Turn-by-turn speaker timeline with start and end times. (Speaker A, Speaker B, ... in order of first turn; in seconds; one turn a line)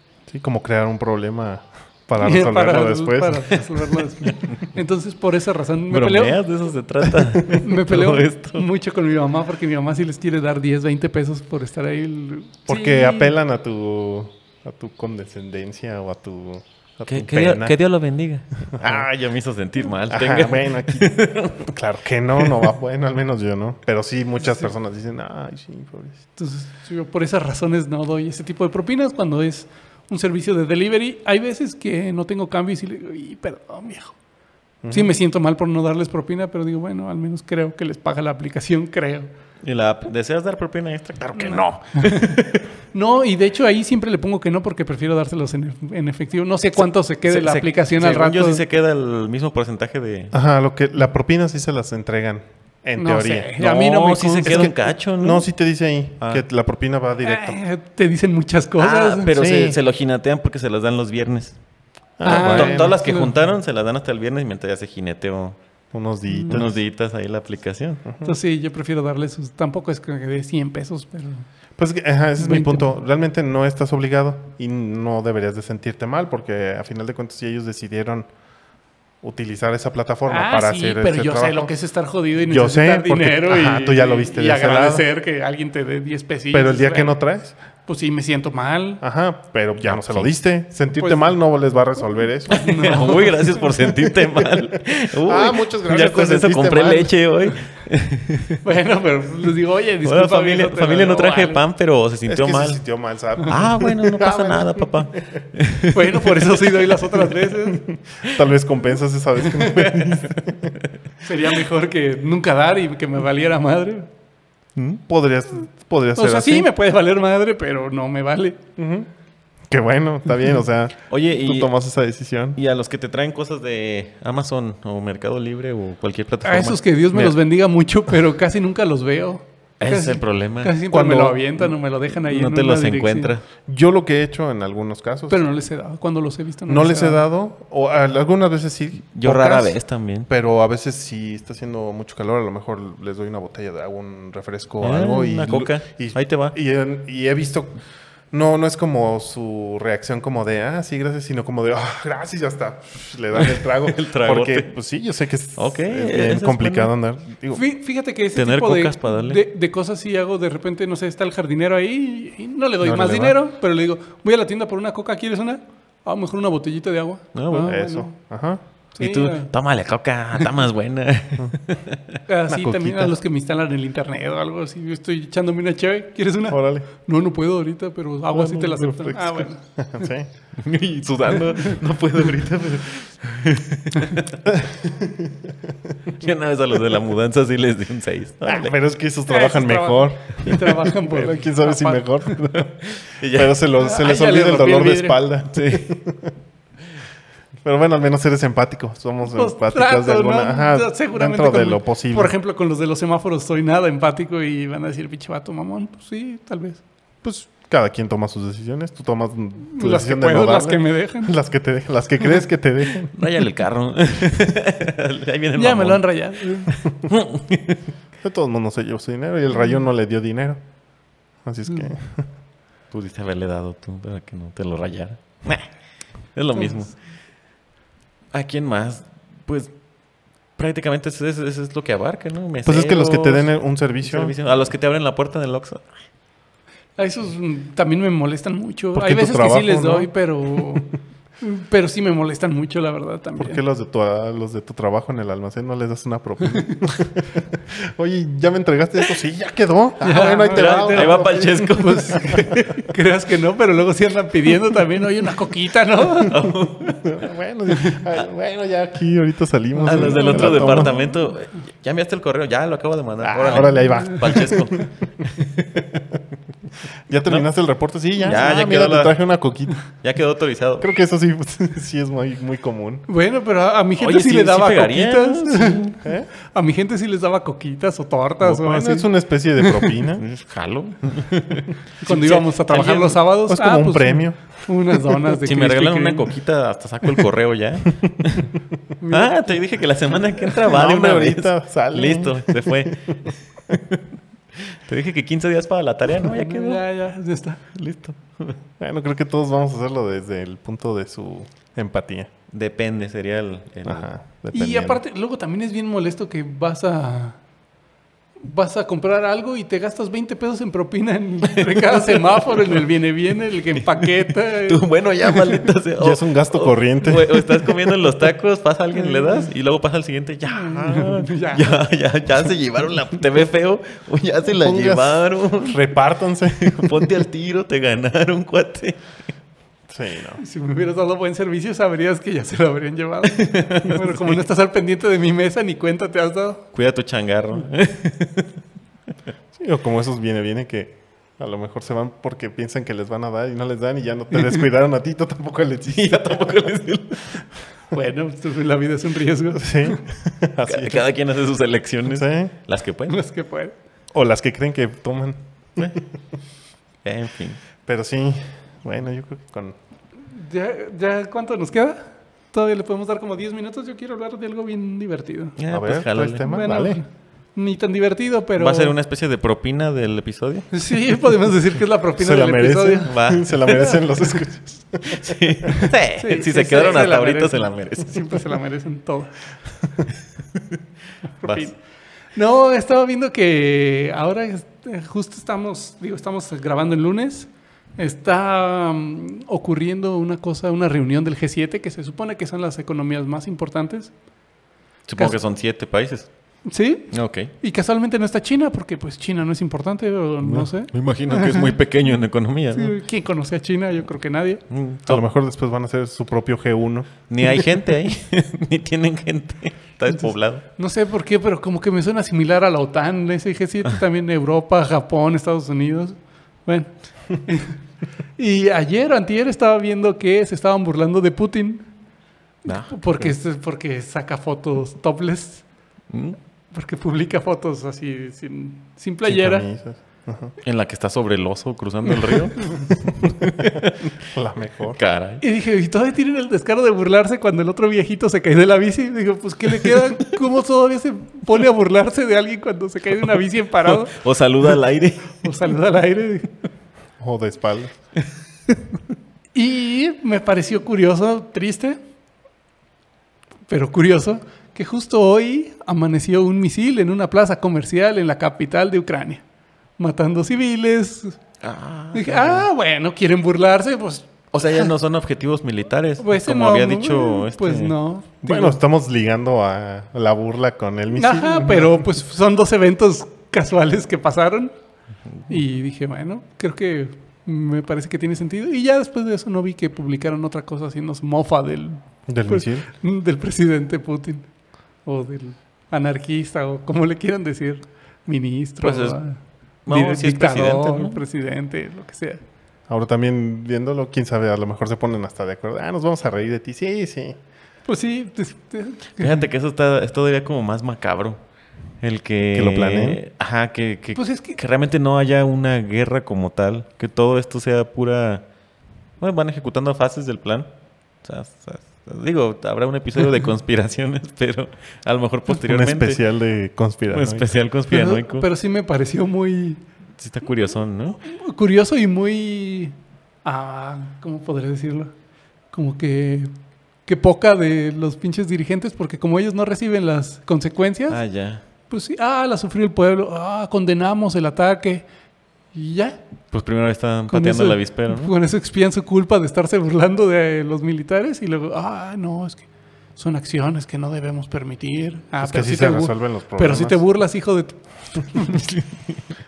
Speaker A: 0.3-3.6
Speaker B: 2.2-6.4
Speaker C: 4.3-4.6
Speaker C: 5.9-8.7
Speaker B: 7.6-13.3
Speaker A: 12.7-17.8
Speaker C: 17.1-21.7
Speaker A: 18.7-19.1
Speaker A: 20.1-26.2
Speaker B: 26.4-34.1
Speaker A: 34.8-35.1
Speaker B: 34.9-39.3
Speaker C: 39.6-42.7
Speaker B: 41.4-42.3
Speaker B: 42.9-48.6
Speaker C: 46.8-50.3
Speaker A: 50.3-53.6
Speaker B: 53.0-54.7
Speaker C: 53.6-55.5
Speaker A: 54.4-57.6
Speaker B: 57.2-59.3
Speaker C: 58.8-61.6
Speaker A: 59.3-59.8
Speaker A: 62.2-63.0
Speaker C: 62.2-65.6
Speaker B: 62.2-63.3
Speaker A: 65.9-66.8
Speaker B: 66.3-66.6
Speaker C: 66.5-68.0
Speaker A: 68.1-68.3
Speaker B: 68.2-71.5
Speaker A: 71.8-78.3
Speaker B: 72.4-72.8
Speaker A: 79.2-81.7
Speaker B: 80.3-87.2
Speaker A: 82.4-85.0
Speaker A: 86.5-87.6
Speaker B: 87.9-89.0
Speaker A: 89.0-93.2
Speaker C: 89.8-90.3
Speaker B: 91.0-91.3
Speaker B: 92.5-93.7
Speaker C: 92.5-98.6
Speaker A: 95.2-97.2
Speaker B: 98.6-101.6
Speaker C: 100.0-102.8
Speaker A: 102.3-105.0
Speaker C: 103.5-106.8
Speaker B: 105.9-107.8
Speaker A: 107.7-110.8
Speaker B: 109.4-110.1
Speaker B: 111.2-114.1
Speaker C: 114.8-115.0
Speaker A: 115.1-116.7
Speaker B: 116.2-118.6
Speaker A: 118.8-119.1
Speaker A: 119.7-122.6
Speaker C: 121.1-121.7
Speaker C: 122.5-127.3
Speaker B: 126.4-133.3
Speaker C: 129.8-130.7
Speaker A: 130.9-131.5
Speaker C: 132.2-133.4
Speaker A: 133.7-135.4
Speaker B: 135.3-137.2
Speaker A: 136.7-147.8
Speaker C: 139.2-140.3
Speaker C: 144.8-146.6
Speaker A: 148.3-157.7
Speaker C: 153.3-154.7
Speaker C: 155.6-156.9
Speaker B: 157.5-168.1
Speaker C: 158.3-159.4
Speaker A: 162.8-163.4
Speaker C: 167.3-167.7
Speaker A: 167.6-168.6
Speaker B: 168.9-169.5
Speaker C: 169.0-172.2
Speaker B: 172.3-180.1
Speaker A: 172.5-173.2
Speaker A: 176.5-176.9
Speaker A: 178.3-180.3
Speaker C: 180.6-184.6
Speaker A: 184.5-185.6
Speaker C: 186.2-188.7
Speaker A: 188.4-196.3
Speaker B: 189.3-192.0
Speaker C: 192.8-193.6
Speaker B: 193.8-195.2
Speaker C: 195.5-195.9
Speaker A: 197.6-202.3
Speaker B: 199.3-206.8
Speaker A: 207.2-213.1
Speaker B: 209.7-211.3
Speaker C: 213.1-216.1
Speaker B: 215.6-216.8
Speaker C: 216.7-217.8
Speaker A: 218.2-220.6
Speaker A: 221.4-222.3
Speaker C: 222.9-225.7
Speaker C: 226.3-227.0
Speaker C: 228.3-229.8
Speaker C: 230.6-233.5
Speaker A: 232.7-234.4
Speaker C: 234.0-235.9
Speaker B: 237.0-243.6
Speaker A: 238.9-240.8
Speaker A: 243.4-251.6
Speaker B: 250.0-256.4
Speaker C: 250.5-252.7
Speaker A: 252.2-252.6
Speaker C: 256.2-257.1
Speaker A: 257.0-261.0
Speaker C: 259.8-265.8
Speaker B: 259.9-260.9
Speaker A: 263.2-264.9
Speaker A: 265.8-266.2
Speaker A: 267.1-269.8
Speaker C: 268.2-269.2
Speaker C: 270.0-270.9
Speaker A: 270.8-273.1
Speaker B: 273.1-276.0
Speaker C: 274.0-276.0
Speaker A: 276.0-276.3
Speaker B: 276.5-280.0
Speaker A: 278.4-280.2
Speaker C: 280.2-283.2
Speaker B: 282.0-286.3
Speaker A: 283.5-285.2
Speaker C: 285.4-288.5
Speaker A: 288.0-288.4
Speaker B: 289.0-289.6
Speaker C: 289.1-294.0
Speaker A: 290.6-292.9
Speaker C: 294.7-296.8
Speaker B: 296.3-297.6
Speaker C: 297.7-298.6
Speaker A: 298.8-302.3
Speaker C: 302.5-304.1
Speaker A: 303.9-305.0
Speaker B: 304.5-307.4
Speaker B: 308.4-315.7
Speaker C: 311.4-312.8
Speaker C: 313.8-325.8
Speaker A: 316.0-317.7
Speaker B: 319.0-319.4
Speaker B: 320.5-321.8
Speaker B: 324.6-325.2
Speaker A: 325.6-326.9
Speaker C: 326.6-329.0
Speaker A: 329.9-330.4
Speaker B: 330.4-336.7
Speaker C: 333.4-334.3
Speaker C: 336.7-338.5
Speaker A: 339.6-346.4
Speaker C: 345.9-347.4
Speaker B: 347.9-350.0
Speaker A: 349.6-351.1
Speaker C: 350.7-353.2
Speaker A: 352.1-352.5
Speaker B: 353.1-353.7
Speaker A: 354.1-356.0
Speaker C: 357.0-357.6
Speaker A: 357.9-359.8
Speaker B: 360.3-365.6
Speaker C: 365.6-366.4
Speaker A: 365.7-367.0
Speaker B: 366.4-368.9
Speaker C: 368.6-370.7
Speaker B: 370.7-374.4
Speaker A: 372.2-375.3
Speaker C: 373.1-373.8
Speaker C: 375.1-378.4
Speaker B: 375.8-379.4
Speaker B: 381.4-381.8
Speaker C: 381.4-381.7
Speaker B: 382.4-394.1
Speaker C: 395.1-396.3
Speaker B: 396.7-401.8
Speaker C: 397.1-397.5
Speaker C: 400.4-402.9
Speaker B: 402.7-404.6
Speaker C: 404.7-405.2
Speaker A: 405.1-407.1
Speaker C: 407.3-410.6
Speaker B: 410.8-417.8
Speaker B: 418.4-421.9
Speaker C: 422.7-423.3
Speaker B: 422.7-425.6
Speaker C: 426.1-426.4
Speaker B: 426.7-429.7
Speaker A: 429.3-430.5
Speaker C: 430.6-434.0
Speaker B: 432.2-432.9
Speaker A: 434.2-435.0
Speaker C: 434.9-435.4
Speaker B: 435.4-444.2
Speaker C: 444.1-445.4
Speaker B: 445.4-446.5
Speaker A: 447.2-447.9
Speaker B: 449.5-452.0
Speaker B: 453.7-459.4
Speaker B: 460.0-461.4
Speaker C: 461.6-462.7
Speaker B: 462.1-464.9
Speaker C: 464.5-468.0
Speaker B: 466.2-468.6
Speaker A: 468.4-472.0
Speaker B: 471.1-474.7
Speaker B: 475.5-484.5
Speaker A: 482.3-482.9
Speaker B: 485.1-492.4
Speaker C: 488.8-489.2
Speaker C: 489.9-491.2
Speaker A: 492.9-497.4
Speaker B: 497.9-499.4
Speaker C: 499.2-501.4
Speaker C: 502.0-508.4
Speaker A: 502.5-503.2
Speaker B: 504.2-504.6
Speaker C: 509.2-510.7
Speaker C: 511.2-516.2
Speaker A: 515.5-517.5
Speaker C: 517.1-518.5
Speaker B: 517.9-519.8
Speaker C: 520.2-521.2
Speaker B: 521.2-525.1
Speaker B: 525.7-526.5
Speaker B: 527.1-531.2
Speaker C: 531.1-531.6
Speaker B: 531.9-535.0
Speaker B: 535.7-536.2
Speaker C: 536.5-538.3
Speaker B: 537.3-548.7
Speaker A: 545.4-547.0
Speaker C: 548.5-549.2